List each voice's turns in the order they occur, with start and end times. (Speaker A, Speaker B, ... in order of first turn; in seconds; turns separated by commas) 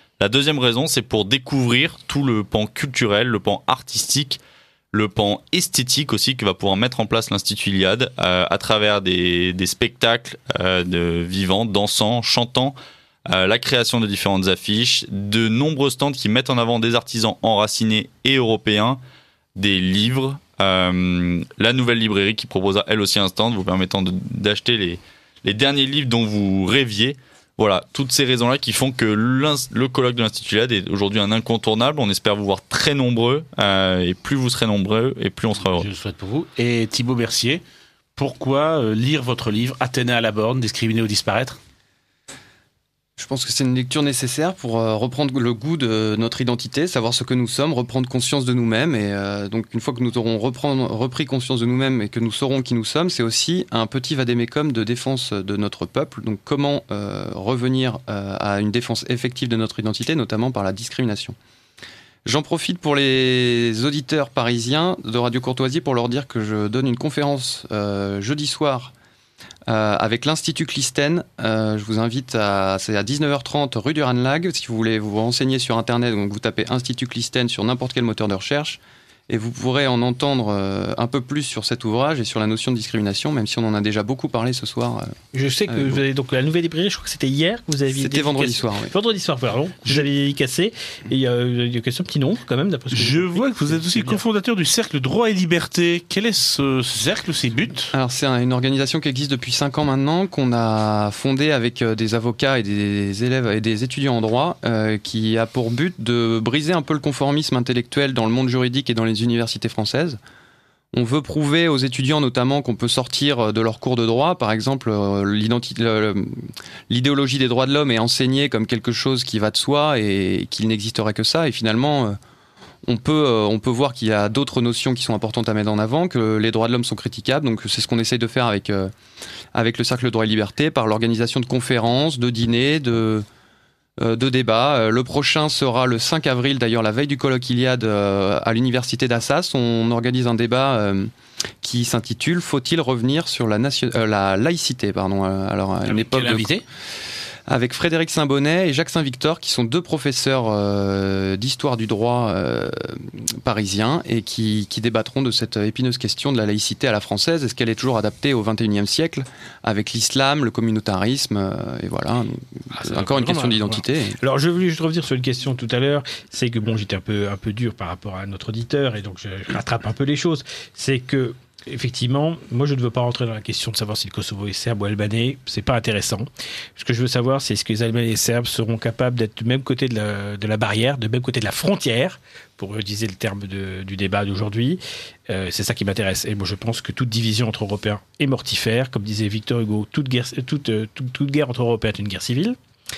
Speaker A: 0.2-4.4, Speaker A: 4.9-12.8, Speaker A: 13.3-19.0, Speaker A: 19.6-35.9, Speaker B: 35.6-37.6, Speaker B: 38.1-41.6, Speaker C: 43.2-61.4, Speaker C: 62.2-68.9, Speaker C: 69.7-85.2, Speaker D: 85.3-94.2, Speaker C: 85.7-86.0, Speaker C: 87.9-88.9, Speaker B: 92.9-97.9, Speaker C: 97.9-110.2, Speaker C: 110.9-122.2, Speaker C: 122.9-128.9, Speaker C: 129.5-133.2, Speaker C: 134.0-141.1, Speaker C: 141.6-146.5, Speaker B: 145.9-146.6, Speaker C: 147.5-164.2, Speaker D: 162.7-192.6